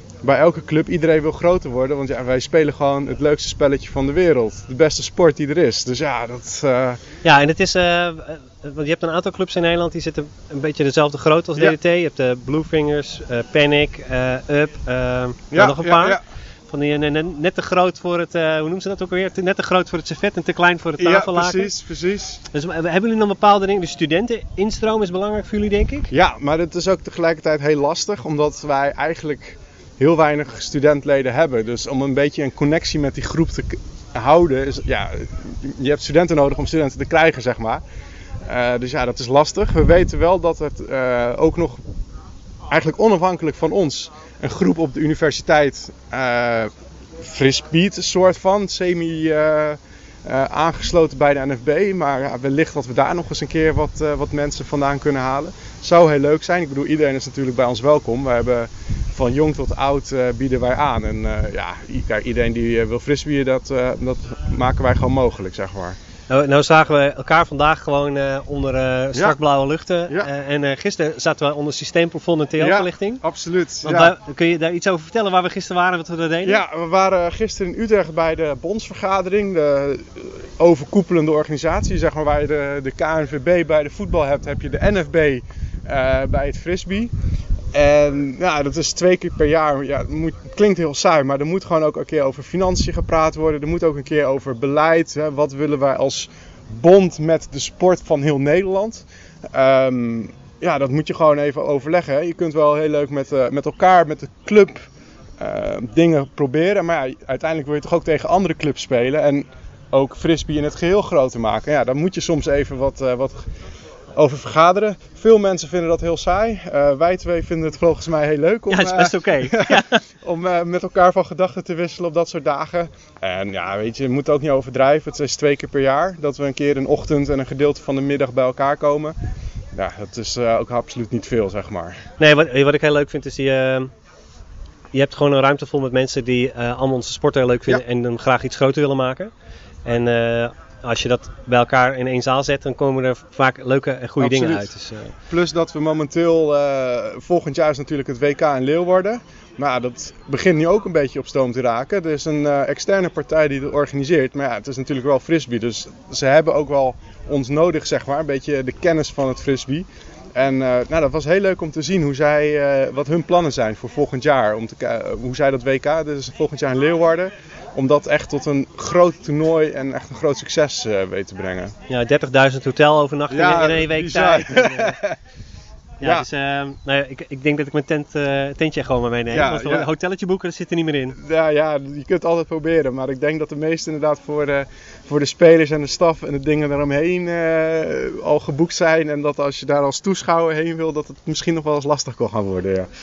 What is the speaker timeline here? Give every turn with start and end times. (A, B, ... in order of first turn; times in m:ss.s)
0:00.2-0:07.0 A
0:07.2-0:21.7 B
0:15.5-0:16.2 A
0:21.0-0:22.4 A
0:22.5-0:26.1 B
0:26.1-0:37.8 A
0:38.5-0:41.8 A
0:42.7-1:06.0 A
1:06.3-1:13.2 B
1:12.6-1:14.1 A
1:13.8-1:16.6 B
1:16.4-1:27.1 A
1:27.7-1:44.9 A
1:45.4-1:53.5 A
1:54.1-2:09.2 A
1:58.7-2:00.0 B
2:09.7-2:12.0 A
2:12.2-2:13.9 B
2:14.9-2:19.3 B
2:19.8-2:25.1 B
2:24.2-2:24.7 A
2:25.2-2:51.7 A
2:51.9-2:55.0 B
2:53.3-2:55.1 A
2:56.0-3:01.2 B
2:56.0-2:56.3 A
2:59.3-2:59.9 A
3:01.2-3:12.9 A